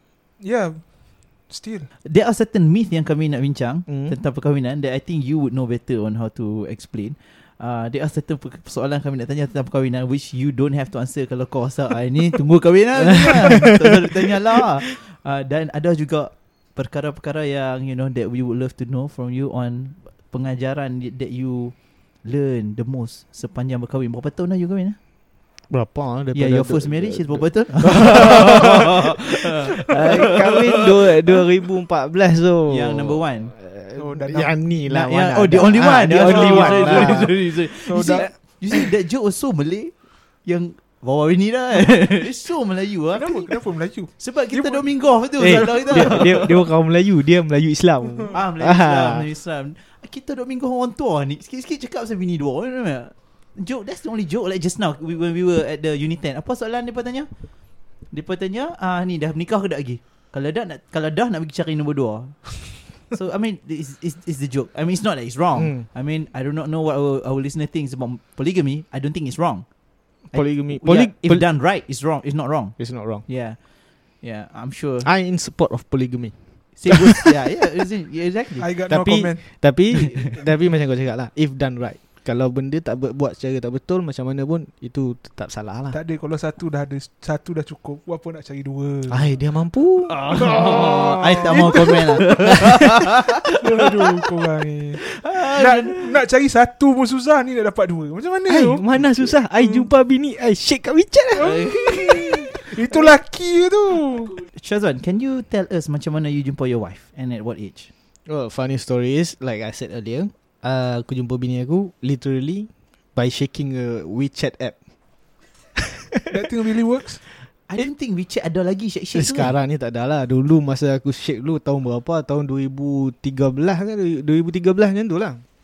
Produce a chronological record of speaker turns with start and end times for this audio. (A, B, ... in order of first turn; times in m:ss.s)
0:00.4-0:01.9 A
0:02.0-0:25.0 B
0:03.9-0:04.1 C
0:13.0-0:13.7 A
0:13.1-0:13.8 C
0:25.7-0:37.3 C
0:26.3-0:31.4 B
0:32.7-0:33.5 B
0:33.9-0:34.5 A
0:34.9-0:39.9 B
0:36.1-0:38.3 A
0:40.4-0:43.6 B
0:43.1-0:46.3 A
0:44.2-0:46.6 B
0:45.4-0:49.2 C
0:48.3-0:57.3 B
0:58.1-1:09.6 B
1:05.6-1:05.8 C
1:10.3-1:13.6 B
1:10.3-1:11.5 C
1:12.8-1:13.2 C
1:14.2-1:15.1 B
1:15.0-1:17.3 C
1:16.8-1:18.7 B
1:18.6-1:19.4 A
1:18.9-1:26.0 C
1:25.9-1:29.2 A
1:29.1-1:30.9 C
1:30.1-1:33.6 B
1:30.3-1:39.9 A
1:31.4-1:31.8 C
1:35.0-1:36.2 B
1:38.5-1:42.3 C
1:41.4-1:44.4 A
1:41.4-1:42.6 B
1:44.5-1:47.9 B
1:48.3-1:54.8 C
1:55.8-1:56.3 C
1:56.3-1:57.2 A
1:57.7-1:59.5 B
1:59.1-2:05.4 C